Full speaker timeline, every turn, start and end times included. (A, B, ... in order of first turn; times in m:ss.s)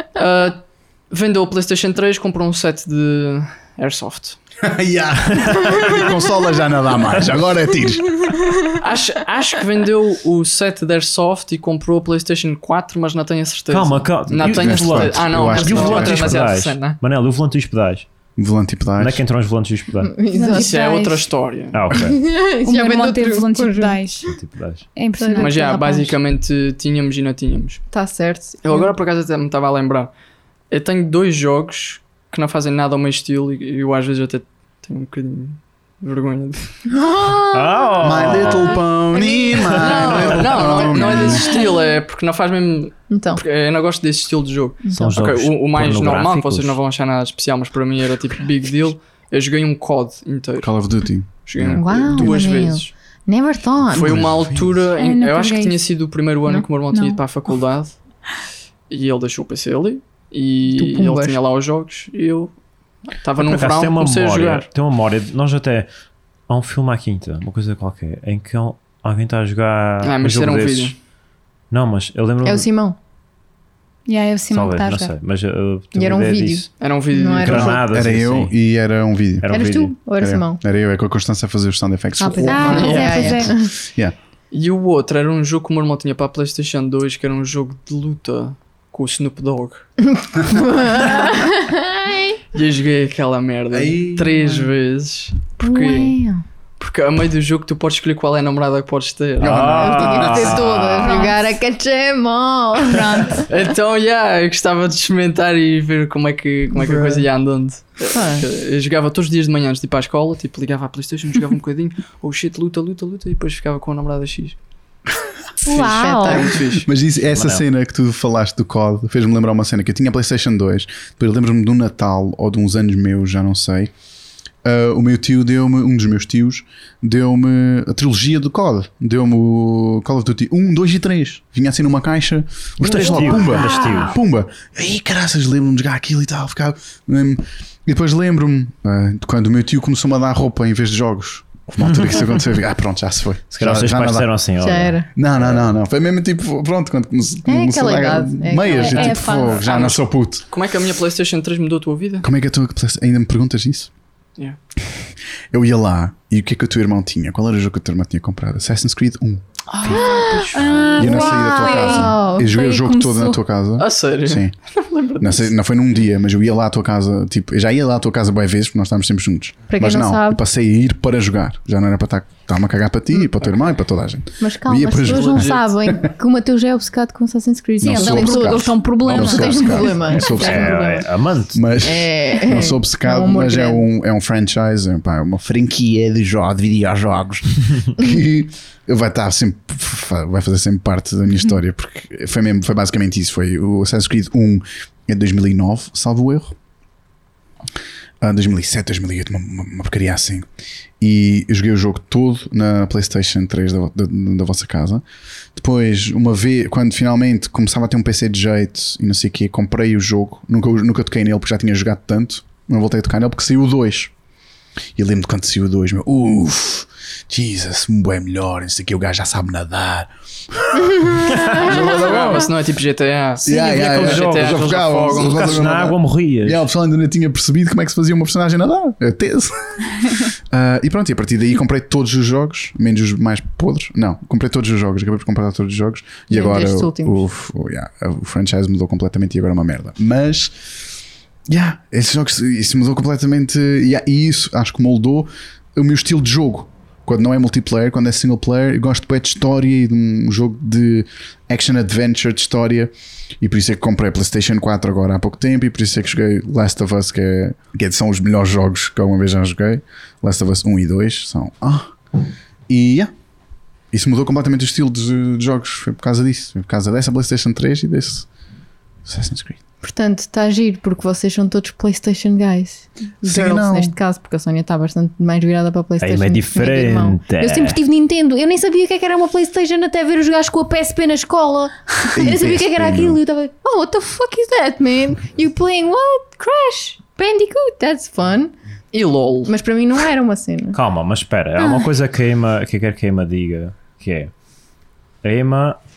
0:00.2-0:04.4 A
0:04.6-0:08.3 B
0:05.4-0:05.7 C
0:08.8-0:17.0 A
0:13.7-0:18.0 C
0:14.3-0:16.4 B
0:18.4-0:19.2 B
0:19.0-0:20.1 C
0:20.0-0:21.0 D
0:20.3-0:21.2 E
0:20.5-0:21.9 A
0:21.7-0:22.2 C
0:21.9-0:24.0 D
0:22.6-0:24.3 E
0:24.3-0:24.8 C
0:24.9-0:26.2 E
0:25.2-0:25.8 D
0:25.4-0:27.8 A
0:27.9-0:28.9 D
0:28.6-0:30.1 A
0:30.7-0:36.6 A
0:36.9-0:40.3 D
0:37.5-0:38.8 C
0:38.0-0:41.6 B
0:39.7-0:40.4 C
0:39.8-0:50.7 A
0:41.1-0:41.8 D
0:43.1-0:43.4 D
0:44.8-0:45.1 D
0:45.0-0:46.8 C
0:50.6-0:52.4 B
0:51.4-0:52.9 A
0:51.8-0:54.4 D
0:53.9-0:54.9 B
0:53.9-0:57.9 A
0:55.0-0:55.8 E
0:56.9-0:57.2 E
0:58.9-1:02.5 A
1:00.7-1:01.4 D
1:03.2-1:04.7 A
1:03.4-1:05.9 C
1:06.5-1:10.9 C
1:10.0-1:11.0 A
1:11.7-1:12.7 C
1:12.4-1:13.0 D
1:14.1-1:15.1 E
1:14.5-1:16.7 C
1:15.9-1:17.8 D
1:16.8-1:17.6 A
1:17.4-1:18.5 C
1:17.4-1:19.6 B
1:19.4-1:19.9 C
1:19.5-1:20.6 D
1:20.1-1:24.1 B
1:22.2-1:23.7 D
1:22.4-1:23.5 E
1:22.6-1:23.2 A
1:24.5-1:29.9 A
1:30.0-1:32.4 D
1:32.5-1:36.2 A
1:33.7-1:34.4 B
1:35.6-1:36.4 D
1:36.8-1:40.0 A
1:39.4-1:41.1 B
1:39.4-1:41.2 C
1:39.7-1:43.4 D
1:41.0-1:41.4 E
1:42.8-1:43.5 E
1:43.5-1:54.6 A
1:46.7-1:47.2 D
1:48.1-1:48.5 D
1:55.6-1:56.5 E
1:55.7-1:56.9 A
1:55.7-1:56.6 D
1:56.7-2:03.9 B
1:57.2-1:57.6 C
2:04.6-2:24.3 B
2:12.8-2:14.2 C
2:13.6-2:14.0 E
2:21.8-2:22.3 C
2:23.5-2:25.0 C
2:24.6-2:25.1 D
2:25.2-2:30.4 B
2:27.4-2:29.4 D
2:28.7-2:29.6 E
2:29.6-2:32.3 A
2:32.2-2:33.9 B
2:35.5-2:39.4 B
2:39.7-2:41.0 A
2:39.8-2:42.5 D
2:39.9-2:43.4 E
2:40.9-2:44.5 B
2:43.8-2:45.5 A
2:45.2-2:56.0 B
2:49.7-2:50.4 D
2:54.4-3:01.1 D
2:55.0-2:55.7 A
2:57.8-3:01.0 B
2:57.8-3:00.3 E
3:00.3-3:01.6 C
3:01.5-3:16.5 B
3:01.8-3:03.8 D
3:18.2-3:20.4 B
3:21.0-3:25.0 B
3:25.5-3:34.1 B
3:35.0-3:42.5 B
3:40.9-3:41.7 D
3:41.6-3:45.7 A
3:43.4-4:00.7 B
3:43.5-3:46.6 C
3:56.3-3:57.2 D
4:01.5-4:22.0 B
4:22.7-4:23.1 B
4:23.9-4:28.3 B
4:29.0-4:29.6 B
4:29.8-4:48.5 D
4:33.2-4:33.9 B
4:36.0-4:37.8 C
4:42.1-4:43.2 B
4:48.9-4:49.5 A
4:49.5-4:50.8 D
4:50.7-4:54.3 C
4:51.6-4:51.9 E
4:55.2-4:55.8 C